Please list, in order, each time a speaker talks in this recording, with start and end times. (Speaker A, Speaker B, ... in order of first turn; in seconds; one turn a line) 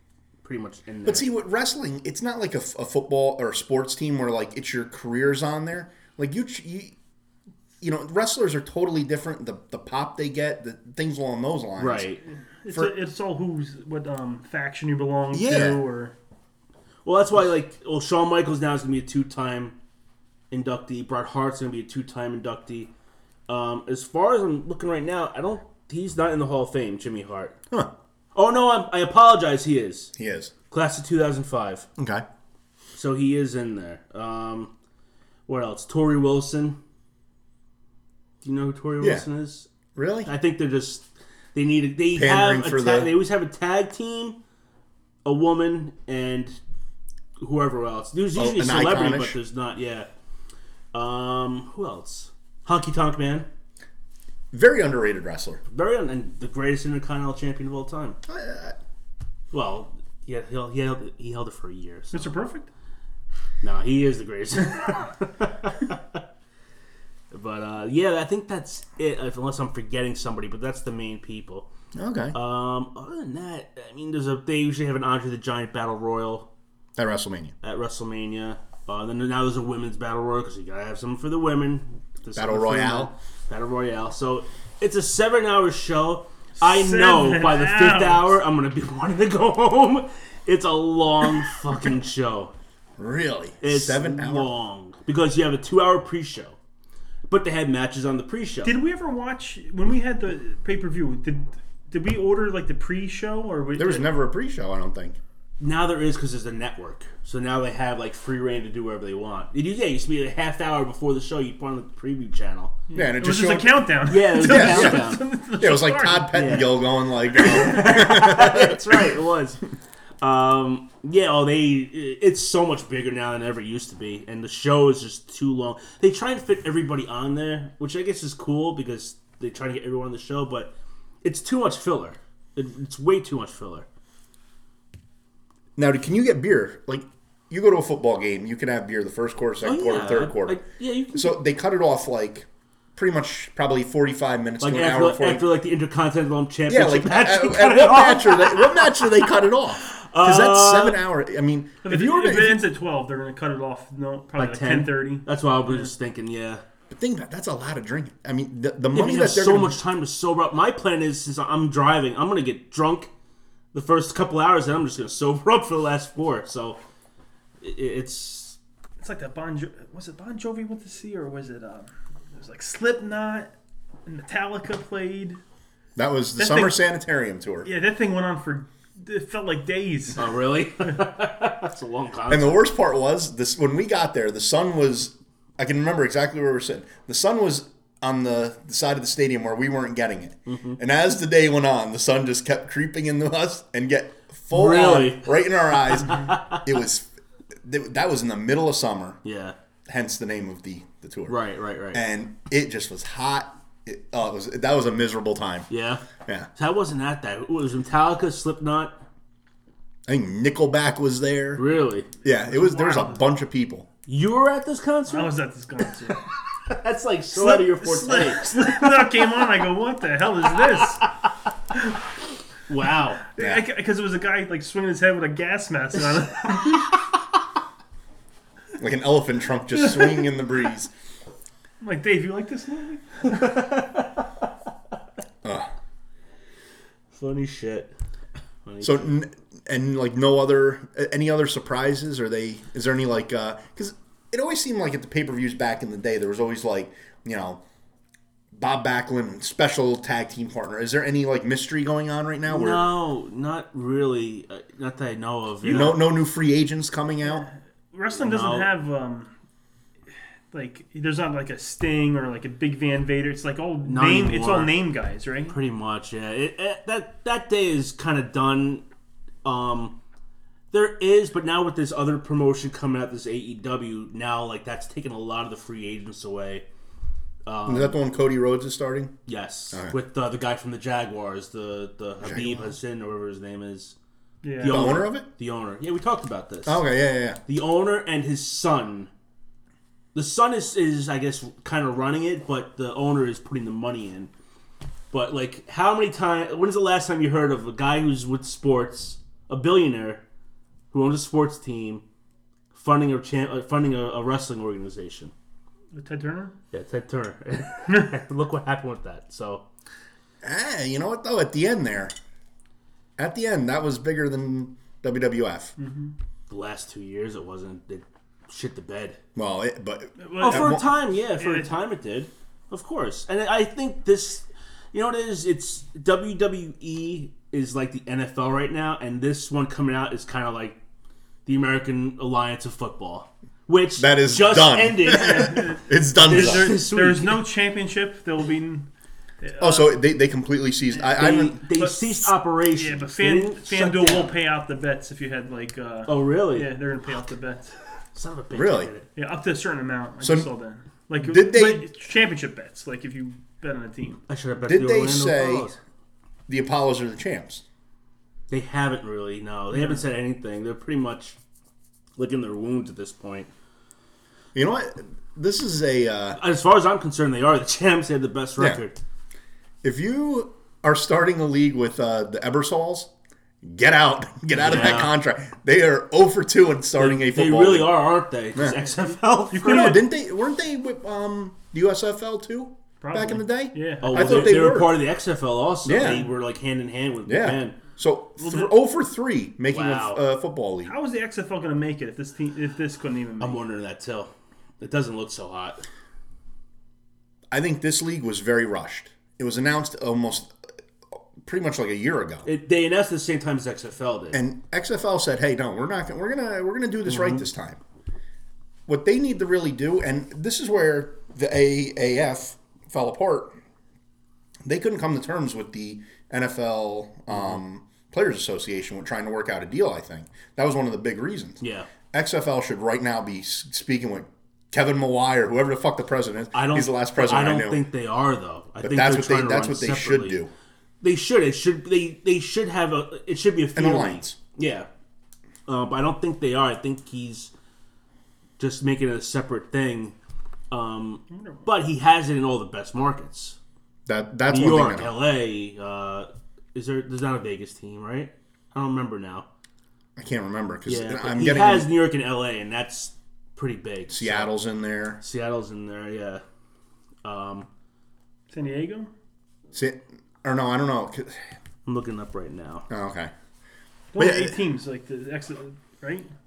Speaker A: 0.4-1.3
Speaker B: 1.1-6.9
Speaker B: 7.8-12.1
Speaker A: 11.8-12.2
Speaker C: 12.6-16.1
Speaker B: 15.3-15.8
Speaker A: 17.1-19.8
Speaker A: 20.5-22.9
Speaker A: 23.5-27.6
Speaker A: 28.4-30.1
Speaker B: 30.2-30.5
Speaker A: 30.7-31.9
Speaker B: 32.0-32.2
Speaker A: 33.0-34.7
Speaker A: 35.5-36.8
Speaker A: 38.4-39.7
Speaker B: 39.0-39.3
Speaker B: 40.0-40.3
Speaker A: 40.3-44.4
Speaker B: 42.1-43.1
Speaker A: 45.2-46.6
Speaker A: 47.4-50.1
Speaker B: 48.4-49.4
Speaker A: 50.9-53.5
Speaker B: 54.5-55.6
Speaker A: 55.7-58.2
Speaker B: 58.3-58.8
Speaker A: 59.5-62.4
Speaker C: 62.1-62.7
Speaker A: 63.6-66.2
Speaker A: 67.3-71.7
Speaker B: 71.9-72.4
Speaker A: 72.3-76.5
Speaker B: 77.0-77.5
Speaker A: 77.6-92.5
Speaker B: 82.3-83.1
Speaker C: 86.6-88.3
Speaker B: 93.0-94.5
Speaker A: 93.6-96.6
Speaker A: 97.3-98.7
Speaker C: 98.6-104.1
Speaker B: 103.8-105.2
Speaker A: 105.6-112.8
Speaker C: 112.9-116.4
Speaker B: 112.9-119.1
Speaker A: 114.1-115.2
Speaker A: 116.3-119.6
Speaker A: 120.2-133.9
Speaker B: 135.8-140.6
Speaker A: 139.6-141.4
Speaker B: 141.1-145.5
Speaker A: 144.6-149.3
Speaker B: 146.7-152.6
Speaker A: 149.8-151.0
Speaker C: 151.8-155.9
Speaker A: 154.4-156.6
Speaker B: 156.9-159.8
Speaker A: 158.9-163.1
Speaker A: 163.7-166.8
Speaker A: 167.6-168.6
Speaker C: 169.0-173.5
Speaker C: 174.1-175.4
Speaker B: 176.0-177.7
Speaker C: 176.4-176.8
Speaker C: 177.6-180.2
Speaker A: 180.2-182.6
Speaker B: 182.3-197.1
Speaker A: 190.5-190.8
Speaker A: 194.5-195.3
Speaker A: 196.1-196.6
Speaker B: 197.6-199.2
Speaker A: 199.2-199.6
Speaker B: 199.9-201.4
Speaker A: 201.3-202.0
Speaker B: 201.9-205.7
Speaker A: 205.7-206.0
Speaker A: 206.6-209.0
Speaker B: 210.1-211.6
Speaker A: 211.6-212.1
Speaker B: 212.2-213.9
Speaker C: 212.3-213.3
Speaker A: 214.1-215.3
Speaker C: 215.1-216.2
Speaker A: 216.2-219.3
Speaker C: 217.3-221.1
Speaker A: 222.7-223.2
Speaker C: 223.3-227.0
Speaker B: 223.4-223.7
Speaker B: 228.8-230.9
Speaker C: 231.8-233.6
Speaker A: 233.3-234.3
Speaker B: 235.4-235.7
Speaker A: 237.1-237.9
Speaker A: 238.7-239.2
Speaker B: 238.8-247.6
Speaker B: 248.5-252.9
Speaker A: 252.5-256.0
Speaker C: 255.7-256.0
Speaker B: 255.7-257.5
Speaker C: 257.2-259.3
Speaker A: 258.1-258.7
Speaker C: 260.5-265.6
Speaker A: 263.8-264.8
Speaker A: 265.5-268.8
Speaker A: 269.4-269.9
Speaker A: 270.7-276.6
Speaker A: 277.4-278.0
Speaker B: 277.7-279.1
Speaker A: 279.3-283.9
Speaker B: 282.2-282.7
Speaker C: 284.4-285.0
Speaker A: 284.6-286.8
Speaker B: 284.6-285.3
Speaker B: 286.7-287.4
Speaker A: 287.5-289.1
Speaker A: 290.1-294.3
Speaker A: 295.1-300.2
Speaker A: 300.9-302.0
Speaker A: 302.7-305.3
Speaker C: 305.9-306.6
Speaker A: 306.7-309.6
Speaker B: 310.4-312.1
Speaker B: 313.2-315.7
Speaker C: 315.8-316.1
Speaker A: 316.5-319.2
Speaker B: 319.4-320.8
Speaker C: 320.2-321.8
Speaker A: 320.4-330.8
Speaker A: 331.5-335.7
Speaker B: 334.0-336.8
Speaker C: 335.1-338.9
Speaker A: 336.2-337.4
Speaker C: 339.4-340.0
Speaker B: 339.6-341.6
Speaker C: 340.9-347.7
Speaker A: 341.2-344.4
Speaker A: 346.1-346.7
Speaker A: 348.1-349.1
Speaker B: 348.5-348.9
Speaker C: 349.1-354.2
Speaker B: 350.2-350.5
Speaker B: 351.2-351.9
Speaker A: 354.3-355.8
Speaker B: 354.7-355.7
Speaker B: 356.5-357.6
Speaker A: 358.5-361.4
Speaker C: 359.7-360.0
Speaker A: 362.2-363.5
Speaker B: 364.6-366.4
Speaker A: 366.4-369.0
Speaker B: 369.8-373.1
Speaker B: 373.6-378.0
Speaker A: 374.6-375.2
Speaker A: 377.0-379.9
Speaker C: 379.5-380.1
Speaker B: 379.6-385.0
Speaker C: 383.0-384.6
Speaker A: 384.0-387.8
Speaker B: 385.9-386.2
Speaker B: 387.3-390.9
Speaker C: 388.4-388.7
Speaker A: 389.7-390.2
Speaker C: 390.9-393.6
Speaker A: 393.4-395.9
Speaker B: 397.5-400.5
Speaker B: 401.4-402.5
Speaker A: 402.4-404.4
Speaker B: 404.3-407.8
Speaker A: 407.1-407.4
Speaker B: 408.9-413.6
Speaker B: 414.6-421.6
Speaker A: 421.6-421.9
Speaker B: 422.1-427.8
Speaker A: 426.5-430.4
Speaker B: 428.8-430.5
Speaker A: 431.0-434.9
Speaker B: 433.8-434.4
Speaker A: 435.7-437.5
Speaker A: 438.6-440.1
Speaker A: 440.7-443.6
Speaker C: 441.3-441.6
Speaker B: 444.1-445.1
Speaker A: 444.5-449.5
Speaker B: 450.2-451.9
Speaker A: 450.9-454.5
Speaker B: 454.1-455.2
Speaker A: 455.2-456.4
Speaker A: 457.2-457.7
Speaker C: 458.5-459.1
Speaker B: 459.7-461.4
Speaker A: 461.9-462.9
Speaker B: 462.9-463.3
Speaker C: 464.1-466.3
Speaker B: 464.2-464.6